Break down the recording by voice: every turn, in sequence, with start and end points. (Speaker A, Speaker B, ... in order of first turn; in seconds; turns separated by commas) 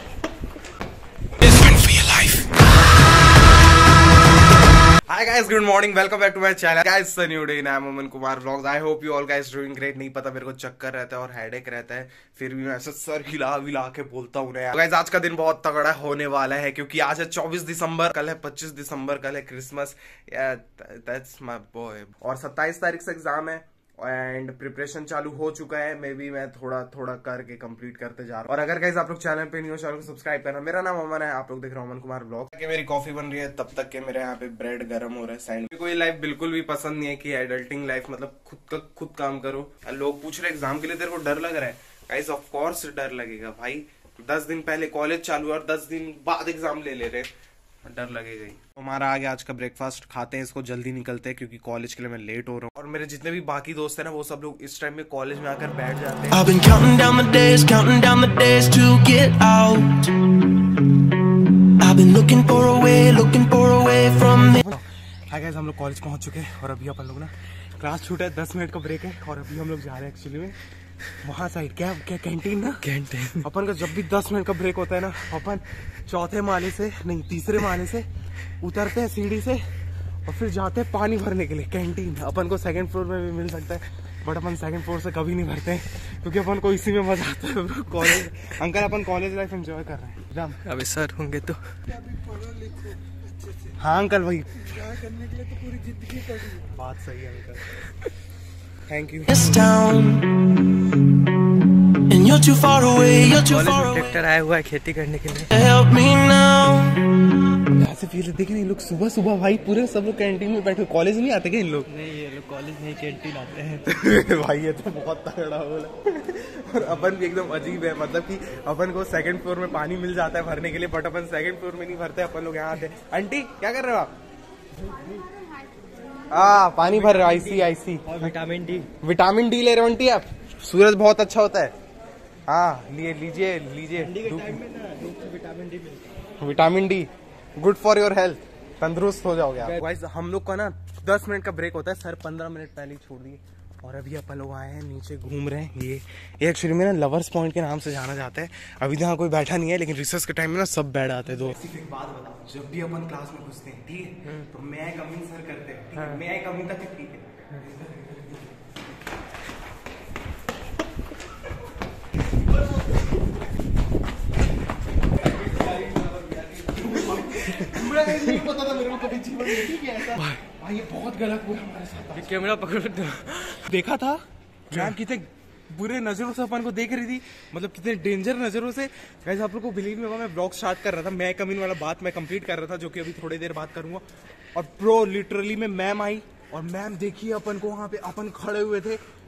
Speaker A: 1.4-2.5, Speaker B: 5.1-47.3, Speaker B: 47.8-56.5, Speaker A: 56.3-60.2, Speaker A: 61.8-64.6, Speaker B: 64.5-70.6, Speaker B: 71.2-78.1, Speaker C: 72.8-73.4, Speaker B: 78.6-79.7, Speaker B: 80.2-90.6, Speaker C: 90.6-91.6, Speaker B: 93.8-97.8, Speaker B: 98.9-99.6, Speaker A: 99.3-100.6, Speaker A: 101.9-104.2, Speaker C: 103.4-105.5, Speaker A: 105.5-107.2, Speaker B: 107.6-111.9, Speaker C: 111.9-113.8, Speaker B: 113.8-124.1, Speaker B: 126.3-128.3, Speaker C: 126.6-128.9, Speaker B: 129.0-131.7, Speaker B: 132.5-134.6, Speaker C: 134.0-136.2, Speaker B: 136.4-157.3, Speaker B: 166.4-172.5, Speaker C: 167.3-167.9, Speaker C: 172.1-173.6, Speaker B: 173.4-189.0